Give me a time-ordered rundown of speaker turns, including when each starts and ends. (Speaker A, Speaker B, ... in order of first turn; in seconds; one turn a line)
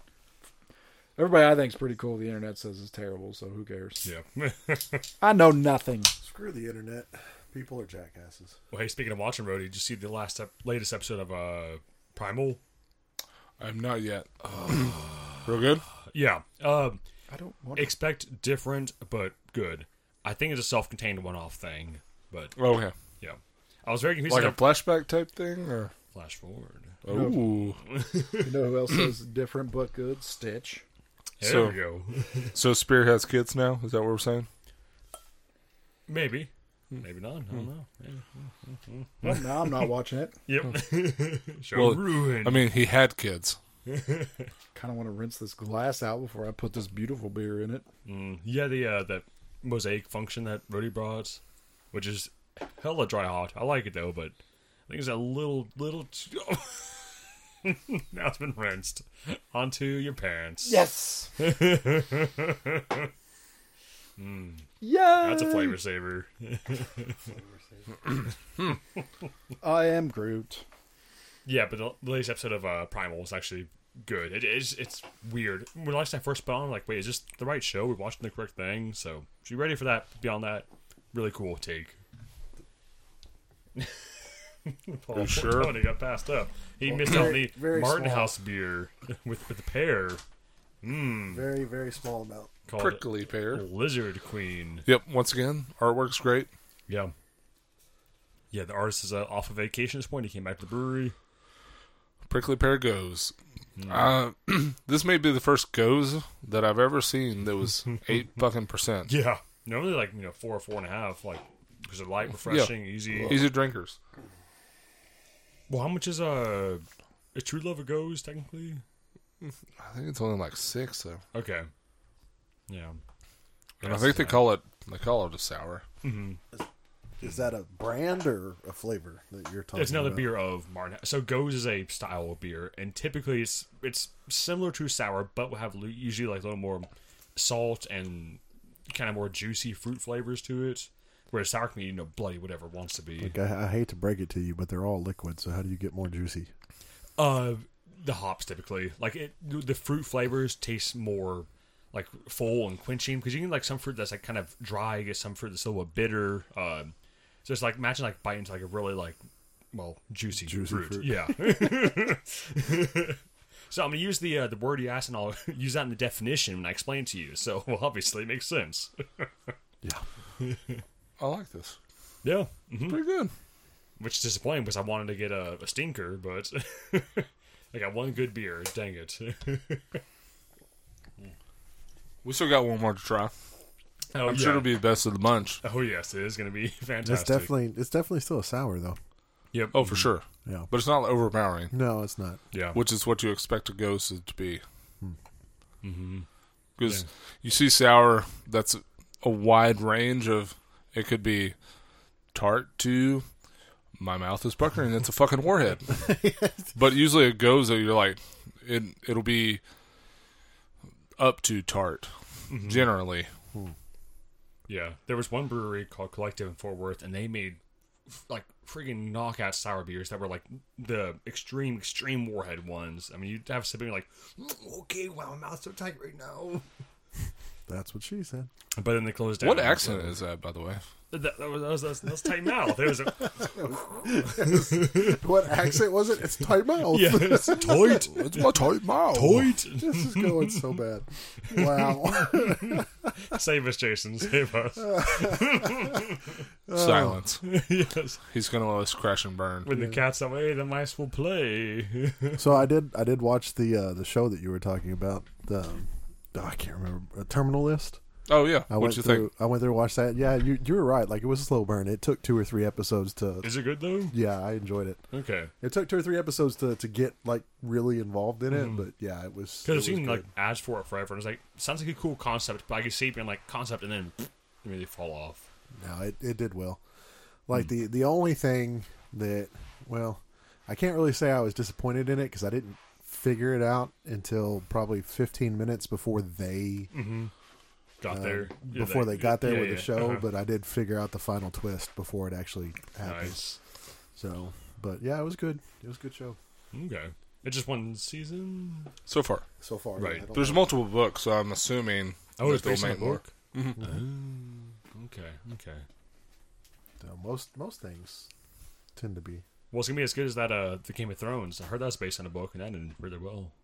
Speaker A: 1.2-4.1
Speaker B: 4.0-5.1
Speaker A: 5.2-6.1
Speaker C: 6.2-8.6
Speaker B: 8.7-12.6
Speaker D: 13.6-15.8
Speaker B: 14.5-15.6
Speaker B: 16.1-17.0
Speaker A: 17.3-18.0
Speaker B: 17.8-22.6
Speaker D: 22.6-22.9
Speaker B: 23.2-24.8
Speaker D: 24.3-25.9
Speaker B: 26.1-27.0
Speaker D: 27.0-27.8
Speaker A: 27.1-27.5
Speaker B: 27.8-28.5
Speaker A: 28.4-30.8
Speaker B: 31.4-32.5
Speaker D: 31.4-31.8
Speaker D: 32.5-34.5
Speaker B: 36.1-39.9
Speaker A: 39.2-40.4
Speaker B: 40.5-42.7
Speaker D: 41.7-43.6
Speaker B: 43.9-44.5
Speaker A: 44.8-47.9
Speaker B: 48.1-51.4
Speaker B: 51.9-54.4
Speaker B: 54.9-60.8
Speaker A: 60.6-61.3
Speaker B: 61.4-63.1
Speaker B: 64.2-67.2
Speaker A: 64.8-65.8
Speaker C: 67.2-68.0
Speaker A: 69.6-70.6
Speaker B: 71.5-82.0
Speaker B: 84.7-90.2
Speaker D: 85.1-85.8
Speaker C: 86.8-88.3
Speaker B: 90.8-91.5
Speaker C: 91.3-92.5
Speaker B: 92.7-94.8
Speaker D: 92.8-93.7
Speaker D: 94.8-96.5
Speaker B: 96.9-97.1
Speaker B: 98.5-101.2
Speaker D: 102.3-103.3
Speaker B: 103.8-104.0
Speaker D: 103.9-109.1
Speaker B: 109.1-113.5
Speaker D: 112.5-114.0
Speaker B: 115.7-118.8
Speaker D: 119.4-121.2
Speaker B: 121.3-121.7
Speaker B: 122.7-123.0
Speaker B: 123.8-124.5
Speaker D: 123.8-125.8
Speaker B: 126.0-126.4
Speaker C: 127.2-130.4
Speaker B: 129.7-143.3
Speaker C: 143.2-146.5
Speaker B: 147.2-156.9
Speaker B: 157.4-159.2
Speaker B: 159.7-163.2
Speaker C: 160.4-161.7
Speaker B: 163.7-169.5
Speaker B: 170.4-170.8
Speaker D: 171.2-171.8
Speaker B: 172.2-173.0
Speaker D: 172.8-173.3
Speaker B: 174.0-180.0
Speaker D: 182.2-183.3
Speaker B: 184.1-184.8
Speaker D: 184.2-185.6
Speaker B: 185.6-187.5
Speaker C: 187.0-189.0
Speaker B: 189.5-190.1
Speaker D: 189.7-191.7
Speaker C: 191.7-192.4
Speaker B: 192.5-192.8
Speaker D: 192.7-194.6
Speaker B: 195.8-196.3
Speaker D: 196.8-201.6
Speaker D: 202.3-203.3
Speaker D: 204.0-206.0
Speaker C: 205.9-206.7
Speaker D: 206.8-209.6
Speaker D: 211.2-213.3
Speaker B: 212.5-212.9
Speaker B: 214.7-217.6
Speaker B: 218.3-226.6
Speaker C: 227.7-228.5
Speaker B: 228.7-230.2
Speaker D: 229.4-230.8
Speaker B: 231.1-235.2
Speaker C: 233.4-238.0
Speaker B: 236.8-238.6
Speaker D: 237.8-239.5
Speaker B: 239.1-240.7
Speaker C: 239.8-242.8
Speaker B: 241.5-246.2
Speaker C: 244.9-245.8
Speaker C: 246.7-247.2
Speaker D: 246.7-247.4
Speaker B: 247.4-248.2
Speaker D: 248.3-249.7
Speaker B: 249.6-252.5
Speaker C: 249.7-250.0
Speaker C: 252.4-258.0
Speaker D: 258.3-259.3
Speaker C: 258.7-263.5
Speaker B: 263.4-264.1
Speaker C: 264.1-265.0
Speaker B: 265.1-265.5
Speaker C: 265.6-270.3
Speaker B: 268.5-268.9
Speaker B: 269.6-275.4
Speaker C: 275.8-276.8
Speaker C: 277.5-286.9
Speaker B: 286.9-287.3
Speaker B: 288.0-290.2
Speaker C: 288.1-293.4
Speaker B: 293.0-293.6
Speaker C: 294.2-296.4
Speaker B: 296.7-298.9
Speaker D: 299.1-299.5
Speaker C: 299.6-300.8
Speaker B: 300.0-300.3
Speaker D: 300.3-303.8
Speaker B: 302.4-305.9
Speaker C: 307.0-308.3
Speaker C: 309.0-309.4
Speaker B: 309.7-313.5